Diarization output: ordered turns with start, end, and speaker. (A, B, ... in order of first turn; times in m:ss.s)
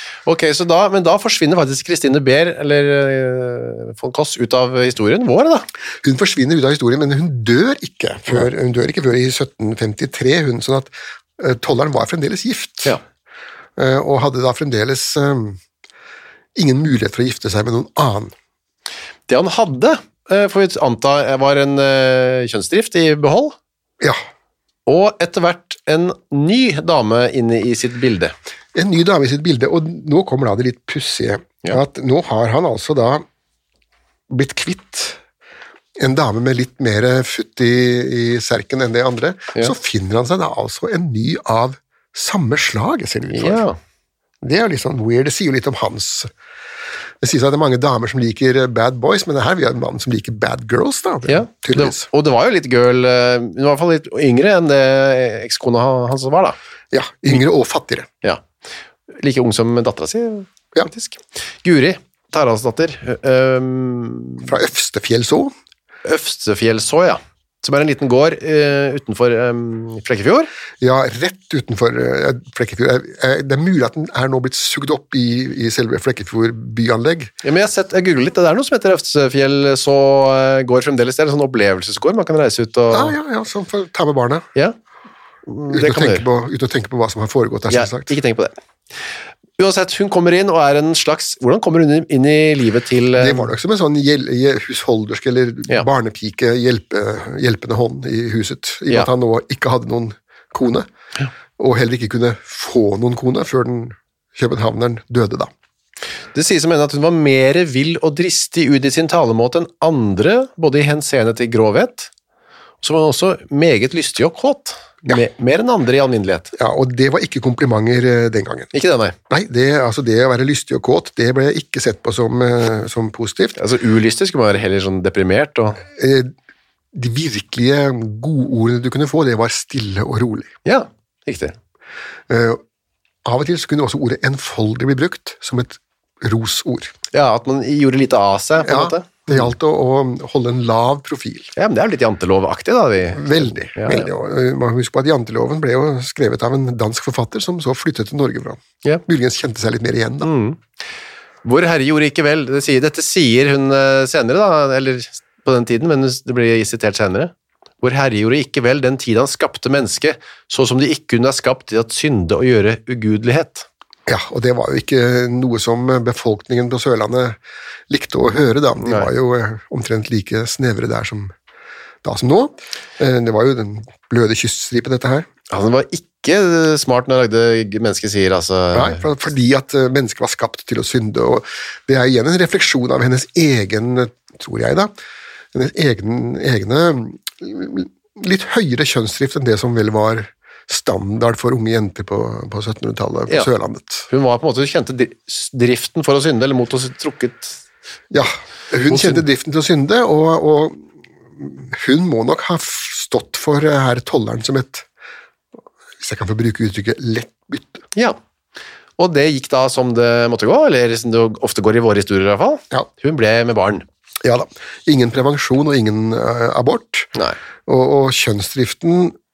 0:00.2-0:05.6 A
0:06.0-0:13.0 B
0:13.8-0:15.6 B
0:16.6-0:18.3 B
0:19.3-0:23.5 A
0:24.9-0:28.3 A
0:28.7-0:33.2 B
0:34.3-0:35.2 B
0:36.0-0:43.6 B
0:43.3-0:43.8 A
0:44.4-0:46.3 B
0:47.2-0:52.1 B
0:51.3-0:56.6 A
0:56.9-0:58.1 B
0:59.1-1:04.5 A
1:04.4-1:05.5 B
1:06.0-1:10.5 A
1:10.8-1:17.3 B
1:17.4-1:23.1 A
1:22.9-1:24.5 B
1:25.5-1:26.2 A
1:25.7-1:28.1 B
1:27.7-1:28.5 A
1:29.6-1:33.5 A
1:33.2-1:40.9 B
1:41.6-1:45.5 B
1:46.3-1:52.1 A
1:52.8-1:56.5 A
1:56.5-1:58.7 B
1:58.7-1:59.1 A
1:59.3-2:03.6 B
2:03.6-2:05.8 A
2:05.9-2:06.3 B
2:06.9-2:10.5 B
2:10.6-2:11.5 A
2:12.3-2:12.6 B
2:13.2-2:17.0 B
2:17.1-2:19.5 A
2:18.6-2:21.5 B
2:21.6-2:24.1 A
2:23.1-2:30.3 B
2:30.2-2:30.6 A
2:31.4-2:43.7 A
2:44.1-2:47.4 B
2:47.9-2:51.3 B
2:48.8-2:49.1 A
2:52.0-2:55.3 B
2:55.5-2:59.0 A
2:58.7-3:04.9 B
3:05.5-3:14.1 B
3:14.1-3:17.6 A
3:18.1-3:20.8 B
3:18.9-3:19.2 A
3:21.4-3:24.8 B
3:26.0-3:27.8 B
3:29.0-3:33.8 A
3:34.2-3:37.1 B
3:37.7-3:39.2 B